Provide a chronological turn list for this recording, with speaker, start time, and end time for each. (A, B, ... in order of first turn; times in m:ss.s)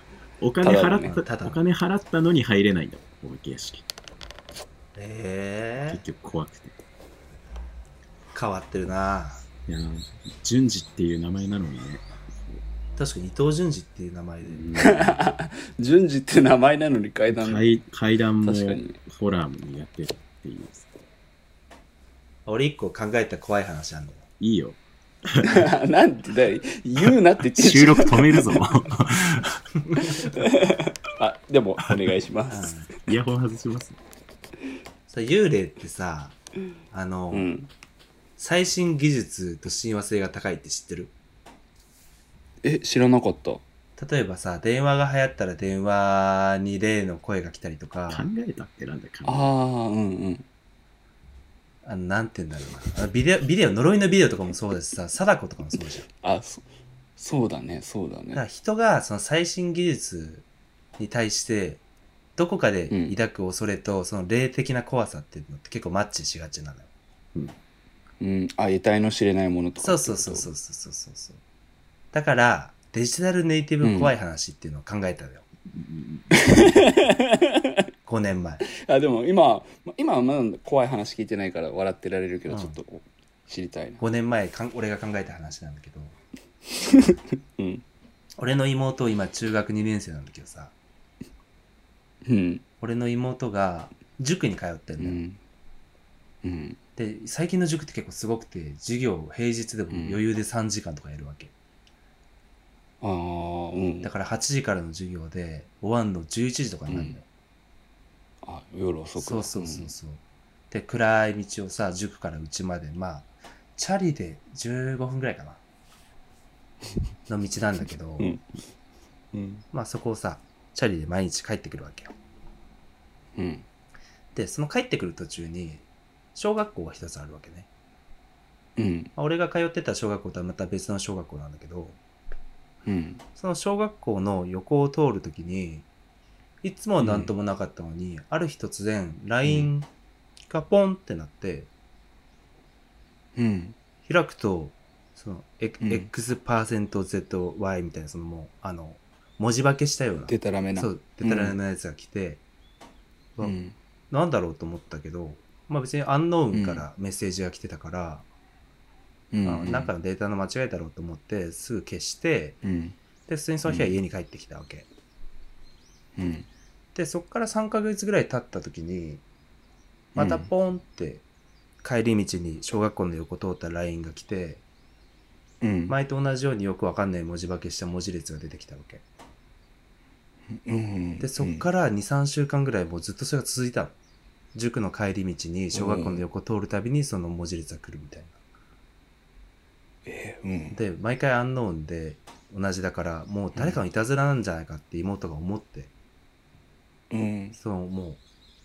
0:00.4-0:03.8 A
0:00.6-0:01.2 B
0:01.2-0:01.6 C
0:05.0-0:06.0 C
0:05.9-0:06.8 A
0:08.3-0:09.4 C
0:09.7-0:12.6 A
0:13.0-0:14.7 C
0:14.5-0:15.3 A
0:14.8-0:17.8 B
0:17.3-0:20.9 A
0:18.4-0:19.0 B
0:22.5-0:24.2 C
0:24.4-0:25.7 A
0:25.4-0:28.6 B
0:27.5-0:29.6 A
0:30.2-0:32.7 B
0:32.5-0:32.9 C
0:33.0-0:34.0 A
0:35.1-0:36.4 C
0:36.9-0:37.5 C
0:37.3-0:37.7 B
0:38.4-0:41.1 C
0:42.6-0:43.6 B
0:44.0-0:48.3 C
0:48.1-0:49.5 A
0:49.2-0:50.5 B
0:51.8-0:56.1 C
0:56.2-0:56.6 B
0:57.2-0:58.4 B
0:58.3-1:00.5 C
1:01.0-1:01.8 C
1:02.4-1:06.9 C
1:02.9-1:03.2 B
1:08.2-1:10.5 B
1:09.8-1:11.4 C
1:12.1-1:15.4 C
1:13.8-1:14.2 B
1:15.8-1:16.6 A
1:16.3-1:17.8 B
1:18.1-1:18.6 C
1:18.7-1:24.0 B
1:22.5-1:22.8 C
1:24.0-1:26.2 C
1:26.7-1:27.8 B
1:28.4-1:30.7 C
1:32.2-1:32.6 B
1:32.8-1:35.2 C
1:35.0-1:35.4 B
1:36.4-1:36.8 B
1:37.0-1:41.5 C
1:39.9-1:40.2 B
1:43.0-1:44.1 B
1:44.0-1:47.2 C
1:46.9-1:47.2 B
1:48.4-1:49.9 B
1:49.2-1:55.6 C
1:57.3-1:58.4 C
1:58.2-1:58.5 B
1:59.3-1:59.6 B
1:59.7-2:02.1 C
2:03.4-2:03.7 B
2:04.4-2:05.8 C
2:06.4-2:07.7 C
2:08.8-2:09.1 B
2:09.2-2:12.0 C
2:12.8-2:13.2 B
2:13.4-2:15.9 C
2:16.6-2:19.9 C
2:17.0-2:17.3 B
2:19.4-2:19.7 B
2:20.5-2:21.7 C
2:23.4-2:23.8 B
2:24.0-2:32.4 C
2:25.8-2:26.1 B
2:30.3-2:31.6 B
2:33.4-2:33.8 B
2:34.1-2:38.3 C
2:36.5-2:36.9 B
2:39.3-2:39.9 B
2:39.4-2:42.6 C
2:42.6-2:43.0 B
2:43.3-2:44.9 C
2:43.7-2:44.0 B
2:46.2-2:46.5 B
2:47.0-2:49.2 C
2:50.2-2:50.5 B
2:50.2-2:51.2 C
2:51.8-2:54.6 C
2:55.6-2:56.0 B
2:55.9-2:59.0 C
3:00.5-3:01.6 B
3:01.2-3:04.0 C
3:04.5-3:08.4 C
3:05.7-3:06.2 B
3:10.1-3:10.8 B
3:10.7-3:15.9 C
3:17.1-3:17.6 B
3:17.6-3:18.2 C